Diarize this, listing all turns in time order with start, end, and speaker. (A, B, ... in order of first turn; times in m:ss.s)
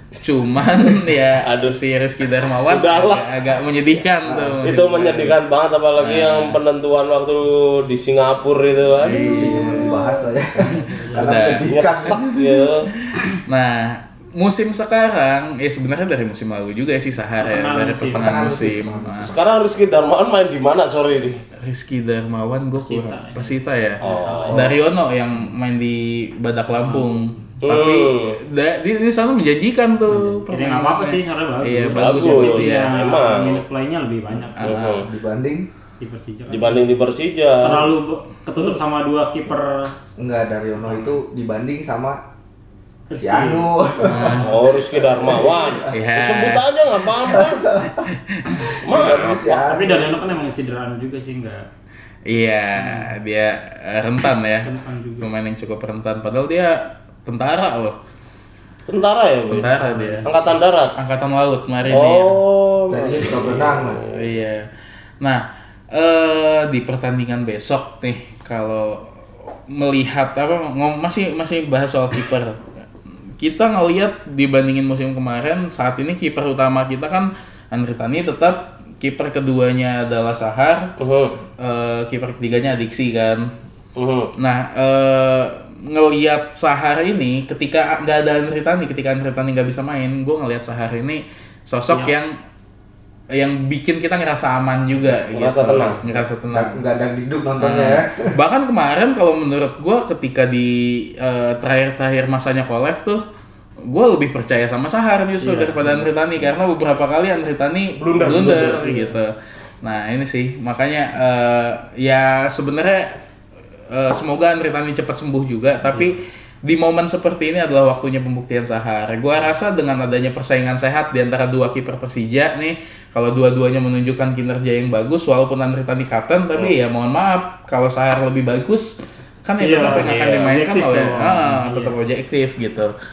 0:00.2-0:05.4 A
0:01.4-0:01.7 B
0:02.7-0:03.3 B
0:04.2-0:04.7 C
0:04.6-0:09.8 B
0:06.0-0:06.6 A
0:09.0-0:10.0 A
0:09.2-0:12.2 C
0:11.1-0:12.2 A
0:11.7-0:12.9 B
0:13.1-0:19.3 A
0:17.4-0:18.5 D
0:18.1-0:19.4 C
0:19.2-0:21.4 B
0:21.6-0:32.9 A
0:22.8-0:24.6 D
0:24.0-0:24.7 B
0:24.5-0:24.8 C
0:27.6-0:28.4 B
0:30.1-0:34.9 D
0:32.0-0:33.6 B
0:34.6-0:35.0 A
0:34.6-0:35.1 B
0:35.0-0:35.7 C
0:36.0-0:37.0 D
0:36.5-0:37.9 B
0:37.6-0:39.9 D
0:40.2-0:42.2 C
0:43.1-0:43.7 D
0:43.2-0:45.9 C
0:44.1-0:44.5 A
0:44.4-0:47.6 B
0:45.9-0:46.6 A
0:47.3-0:48.1 C
0:48.1-0:48.8 A
0:48.8-0:49.6 B
0:48.9-0:50.3 C
0:49.6-0:51.7 D
0:52.3-0:54.7 A
0:52.8-0:53.1 D
0:54.6-0:55.3 D
0:55.2-0:58.0 A
0:58.9-1:00.9 B
0:59.5-1:00.3 A
0:59.8-1:00.4 D
1:01.0-1:02.4 A
1:01.9-1:04.1 B
1:02.9-1:04.0 C
1:04.1-1:04.6 A
1:05.9-1:09.0 A
1:09.7-1:12.6 A
1:13.4-1:20.9 A
1:21.0-1:21.4 B
1:21.6-1:23.5 A
1:24.0-1:24.3 B
1:24.4-1:32.3 A
1:33.3-1:36.8 A
1:35.0-1:36.0 B
1:36.5-1:38.3 C
1:37.6-1:43.2 A
1:43.9-1:49.3 A
1:45.4-1:46.0 D
1:48.0-1:48.9 B
1:48.6-1:49.1 D
1:49.8-1:53.1 A
1:53.9-2:12.9 A
2:09.6-2:11.9 D
2:09.9-2:10.5 B